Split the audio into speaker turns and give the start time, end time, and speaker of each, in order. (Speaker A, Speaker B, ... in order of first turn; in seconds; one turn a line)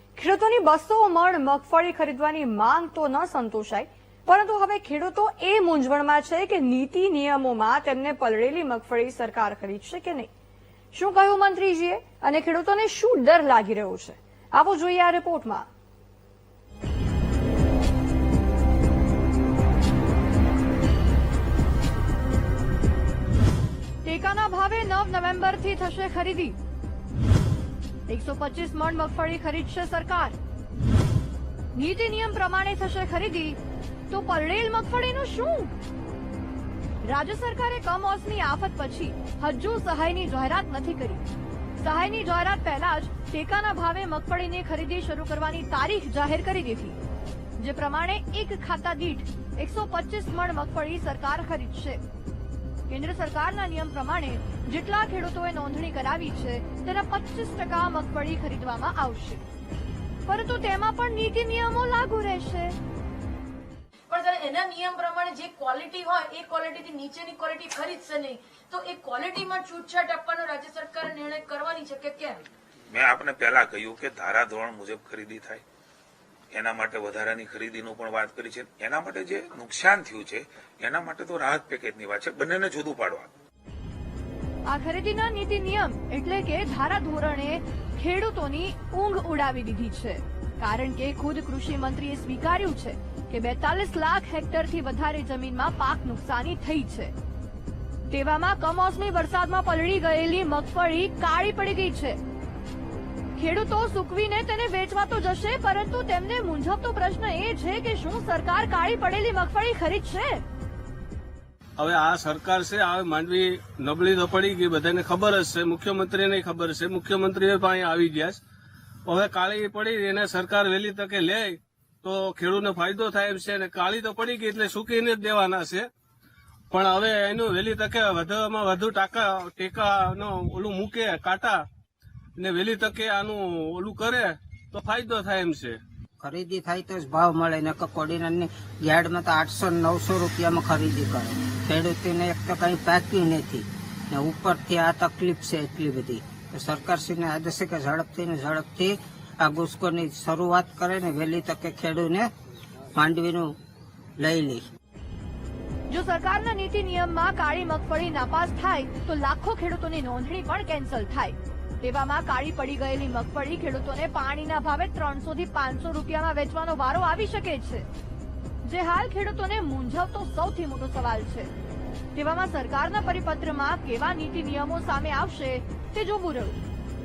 Speaker A: 0.1-10.3
Speaker A: 10.9-15.7
Speaker A: 24.0-26.6
Speaker A: 28.1-30.4
Speaker A: 31.7-33.6
Speaker A: 34.1-35.7
Speaker A: 37.0-41.2
Speaker A: 41.8-47.0
Speaker A: 47.6-52.0
Speaker A: 52.9-59.4
Speaker A: 60.3-62.8
Speaker B: 64.1-72.5
Speaker C: 72.9-75.6
Speaker C: 76.5-83.3
Speaker A: 84.7-97.1
Speaker A: 98.1-102.2
Speaker A: 103.3-110.4
Speaker D: 111.8-118.4
Speaker D: 119.1-125.9
Speaker D: 126.7-131.6
Speaker D: 132.4-135.8
Speaker E: 136.2-152.3
Speaker E: 152.9-153.6
Speaker E: 154.2-154.6
Speaker A: 155.9-167.9
Speaker A: 168.6-171.5
Speaker A: 172.1-176.6